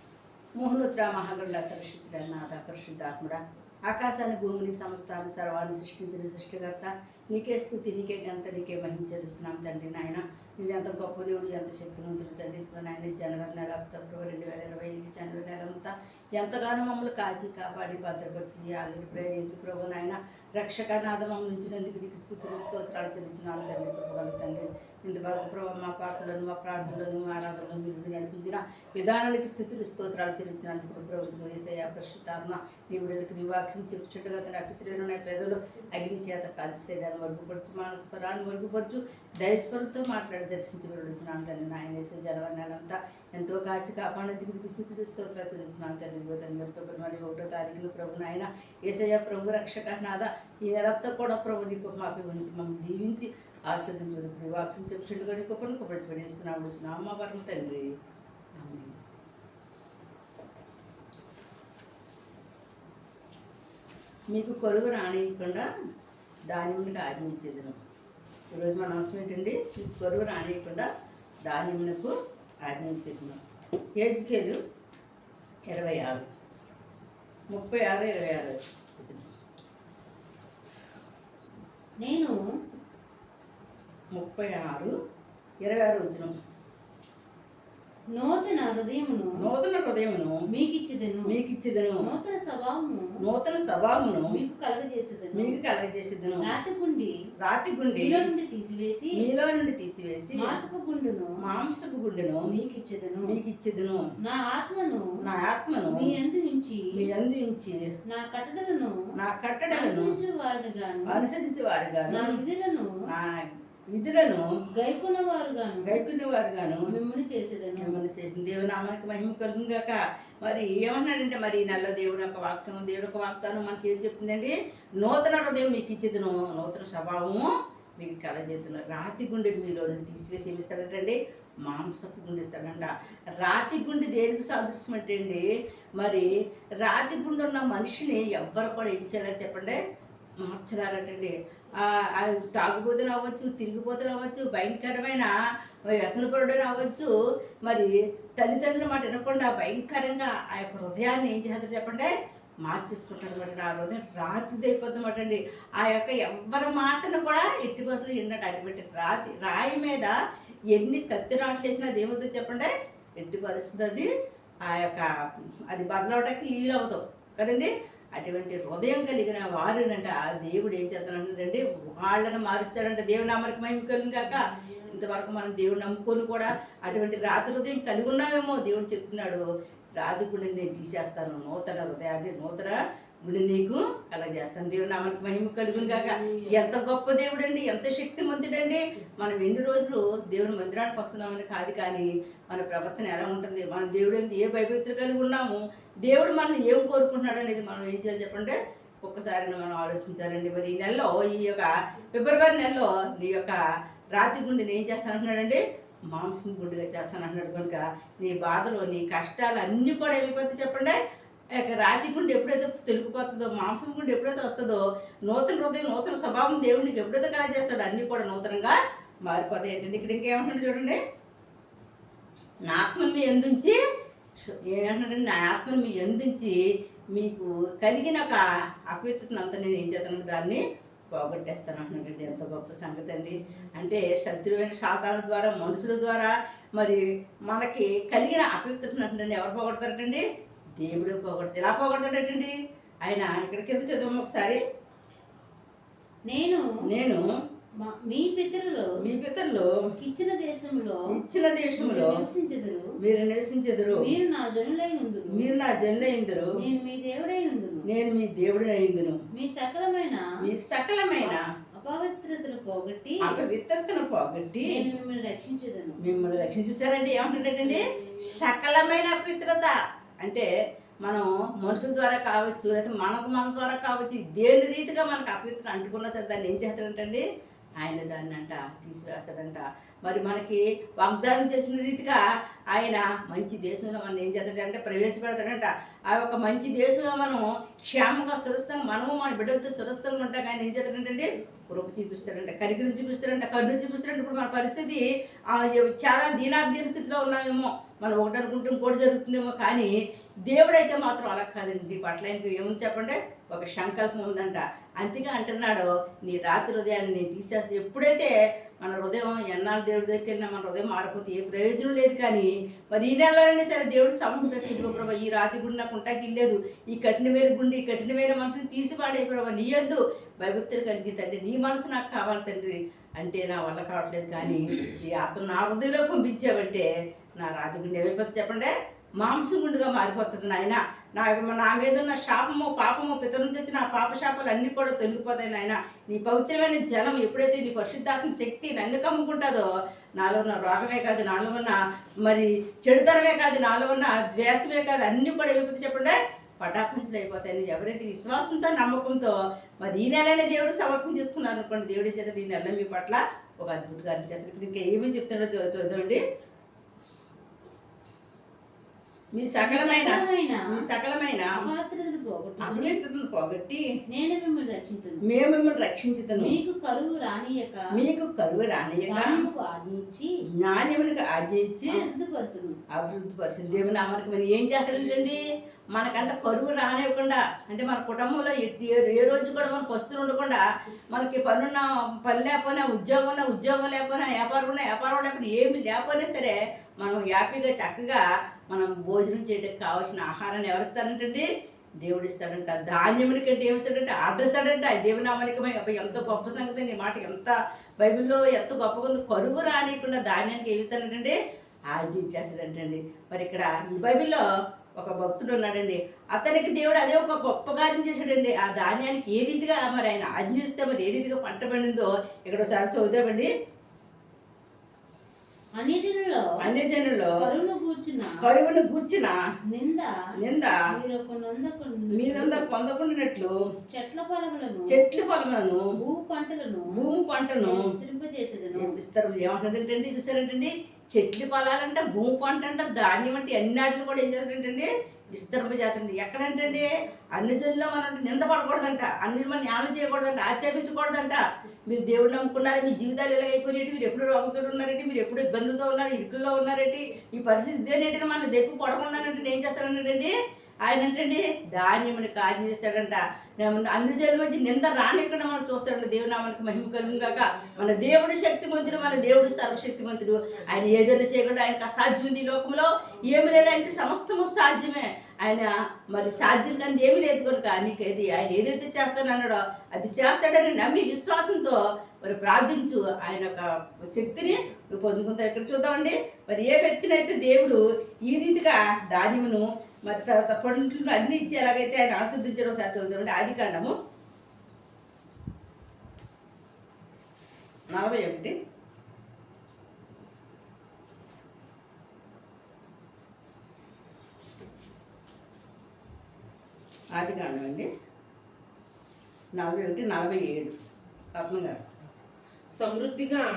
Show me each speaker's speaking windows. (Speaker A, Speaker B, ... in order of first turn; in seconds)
Speaker A: 0.6-57.8, 58.6-59.0, 64.3-65.7, 66.5-67.7, 68.5-70.9, 71.4-72.1, 72.6-73.4, 74.0-74.6, 75.7-76.3, 77.5-79.3, 84.1-84.9, 85.6-86.3, 89.4-90.4, 91.3-92.1, 93.2-94.4, 95.3-96.5, 97.4-98.2, 99.2-100.5, 101.4-102.5, 103.3-104.0, 105.2-106.1, 106.9-107.8, 109.1-110.1, 111.1-112.4, 113.1-114.4, 115.8-116.9, 117.8-135.4, 136.0-136.3, 136.8-139.8, 140.4-145.3, 145.9-147.1, 147.6-152.1, 152.6-160.1, 160.7-164.1, 164.6-165.1, 165.7-179.4, 180.0-203.6, 204.1-211.0, 211.5-221.0, 222.7-223.8, 224.5-226.6, 227.1-230.6, 231.1-240.2, 240.8-244.6, 246.8-247.2, 249.0-249.7, 251.1-252.2, 253.0-254.1, 255.3-256.6, 257.9-259.2, 260.4-261.4, 263.2-264.8, 266.0-270.5, 271.0-277.2, 277.8-282.2, 282.7-299.9, 300.5-339.6, 340.2-356.2, 359.3-361.6, 362.6-363.8, 365.2-366.5, 367.9-369.4, 370.6-371.9, 372.9-391.5, 392.0-401.4, 401.9-404.4, 405.0-413.5, 416.6-417.4, 418.4-419.3, 420.4-420.8, 422.1-423.5, 424.9-425.8, 426.9-427.8, 428.7-483.9, 487.9-488.5, 497.1-497.9, 499.6-500.7, 501.3-501.8
Speaker B: 82.0-82.3, 88.1-89.3, 90.5-91.3, 92.0-93.1, 94.3-95.6, 96.4-97.1, 97.9-99.2, 100.4-101.3, 102.4-103.3, 104.2-105.1, 105.9-106.8, 108.1-109.0, 109.7-111.2, 112.1-112.9, 114.7-116.0, 116.9-118.0, 246.3-246.6, 247.8-248.9, 250.0-251.0, 251.8-252.9, 253.9-255.5, 256.6-257.9, 259.3-260.2, 261.2-263.4, 264.6-266.0, 359.6-360.6, 361.5-363.0, 364.1-365.2, 366.3-367.9, 369.1-370.3, 371.9-372.8, 415.8-416.5, 417.3-418.4, 419.7-420.1, 420.9-422.7, 423.9-425.0, 426.0-426.9, 427.6-429.0
Speaker C: 185.7-186.3, 457.0-458.2, 458.9-459.7, 460.5-460.9, 463.3-463.8, 502.7-503.4